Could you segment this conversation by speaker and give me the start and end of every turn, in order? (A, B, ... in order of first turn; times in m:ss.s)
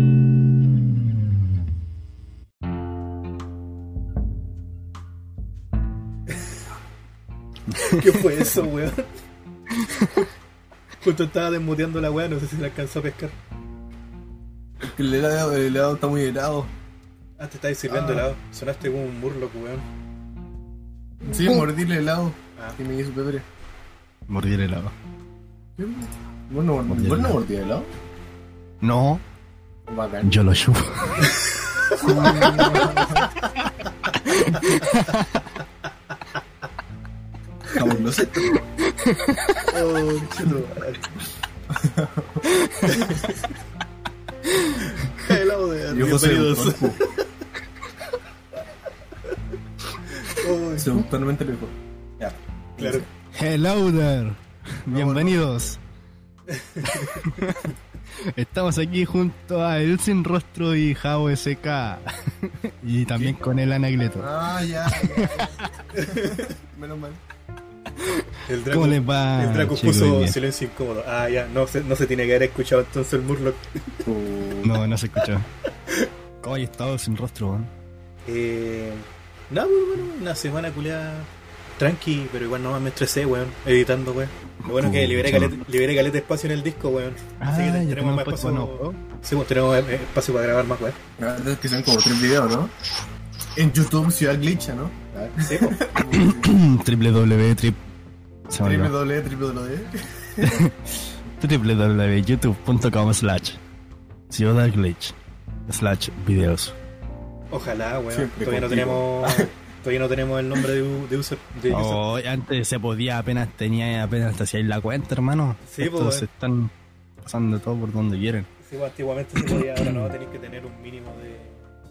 0:06.3-0:06.6 A
0:07.7-0:08.6 B
0:07.8-0:09.1 A
0:09.7-0:10.3 B
0:11.0-0:13.4 A
0:14.8-0:16.7 C
0:17.4-0:19.8 A
0:17.9-0:18.3 C
0:21.2-0:23.4 C
0:24.3-0:24.9 B
0:25.8-0:27.9 C
0:26.9-0:27.4 B
0:28.8-0:29.2 B
0:29.9-0:30.3 C
0:30.2-0:31.3 B
0:31.2-0:33.2 A
0:32.0-0:33.3 C
0:32.1-0:32.9 B
0:34.1-0:34.8 A
0:34.2-0:35.5 B
0:37.7-0:38.6 C
0:38.9-0:39.6 B
0:39.7-0:41.0 A
0:40.2-0:40.8 C
0:41.7-0:42.5 C
0:42.5-0:43.1 B
0:42.8-0:43.5 A
0:44.5-0:44.8 B
0:44.8-0:47.3 A
0:45.9-0:47.0 C
0:50.1-0:51.0 A
0:50.8-0:53.1 C
0:52.8-0:53.1 A
0:53.3-0:55.8 B
0:54.9-0:55.4 C
0:56.5-0:57.4 A
0:57.0-1:05.7 B
1:04.2-1:07.2 C
1:05.9-1:06.5 A
1:08.0-1:10.4 B
1:08.5-1:14.0 A
1:14.0-1:14.8 C
1:14.6-1:15.5 B
1:16.4-1:17.7 B
1:18.3-1:31.0 A
1:24.6-1:25.6 B
1:27.4-1:29.0 B
1:31.2-1:32.7 C
1:33.6-1:36.6 C
1:35.4-1:35.8 A
1:36.0-1:37.8 B
1:38.5-1:38.9 B
1:38.6-1:40.6 C
1:40.4-1:43.6 B
1:44.3-1:45.1 B
1:45.7-1:46.8 B
1:47.5-1:52.0 A
1:48.1-1:49.5 C
1:51.7-1:56.7 B
1:55.7-1:56.3 A
1:57.2-1:58.5 B
1:58.6-2:01.6 A
1:59.4-2:00.2 B